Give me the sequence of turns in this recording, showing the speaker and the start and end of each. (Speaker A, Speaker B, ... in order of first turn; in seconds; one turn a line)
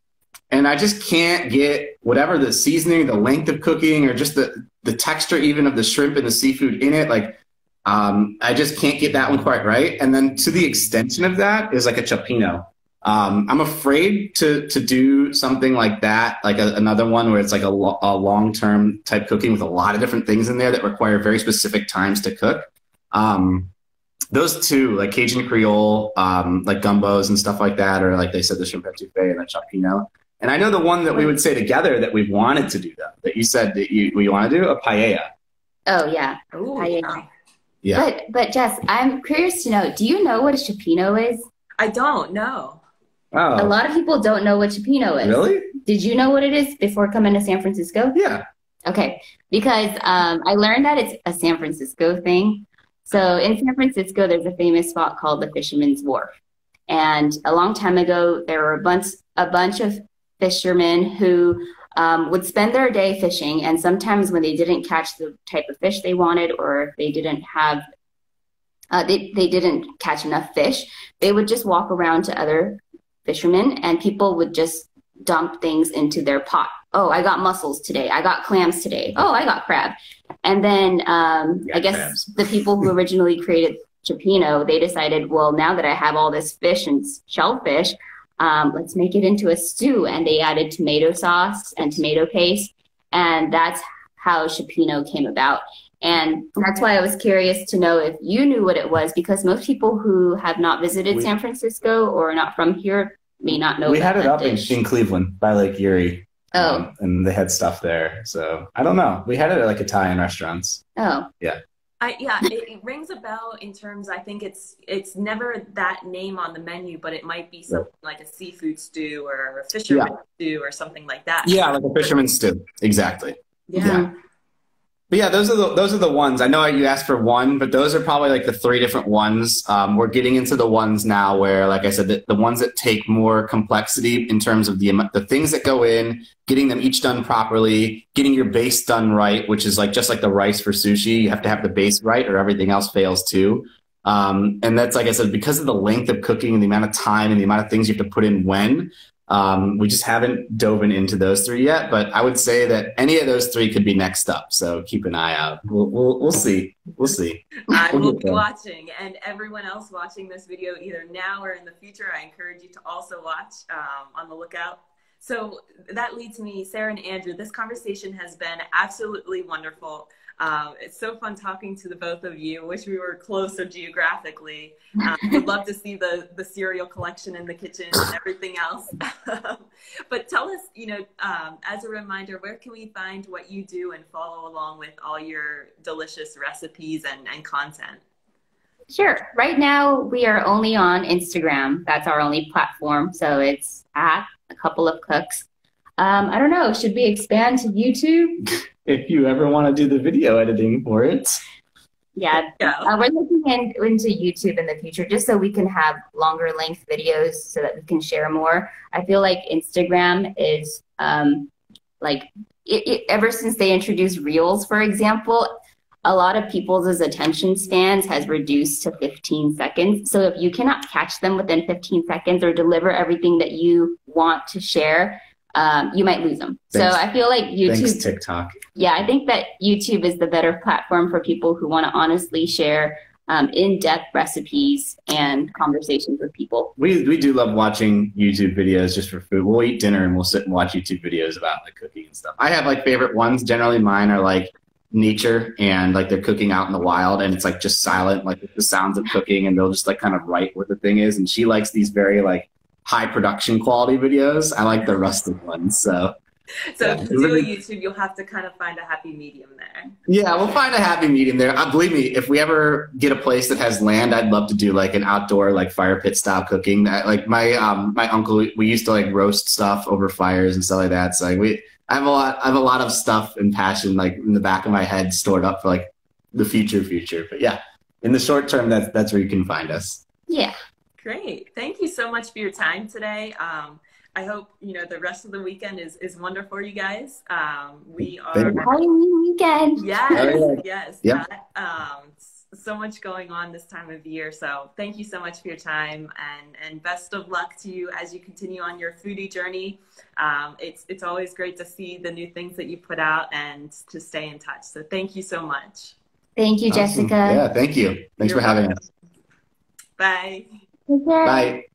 Speaker A: 0.5-23.7
Speaker A: 24.3-35.2
Speaker B: 35.9-37.2
Speaker C: 36.5-37.2
Speaker B: 37.9-41.5
Speaker C: 41.8-42.8
Speaker A: 43.3-43.8
Speaker B: 43.6-48.2
Speaker A: 45.2-45.7
Speaker A: 48.1-48.4
Speaker B: 48.9-56.3
Speaker B: 56.9-67.8
Speaker B: 68.9-104.8
Speaker A: 81.7-82.9
Speaker A: 103.8-110.8
Speaker B: 106.5-106.9
Speaker B: 111.0-111.3
Speaker C: 112.0-122.1
Speaker A: 121.4-124.1
Speaker C: 123.7-124.1
Speaker B: 123.8-124.1
Speaker A: 125.1-158.4
Speaker C: 157.7-188.0
Speaker B: 188.9-195.4
Speaker B: 196.0-198.4
Speaker A: 198.8-201.4
Speaker B: 202.2-211.5
Speaker C: 202.6-202.9
Speaker B: 212.0-215.5
Speaker B: 216.0-228.0
Speaker A: 226.7-227.0
Speaker A: 227.6-228.6
Speaker B: 228.7-236.7
Speaker A: 236.8-256.1
Speaker C: 256.7-259.9
Speaker A: 256.8-257.5
Speaker A: 260.1-280.0
Speaker B: 280.3-280.5
Speaker C: 281.0-288.8
Speaker A: 288.3-288.6
Speaker B: 288.6-290.5
Speaker C: 289.8-306.0
Speaker A: 290.1-291.2
Speaker B: 306.4-307.4
Speaker A: 306.7-308.9
Speaker C: 308.2-308.7
Speaker C: 310.0-310.4
Speaker B: 310.9-311.5
Speaker A: 311.2-311.6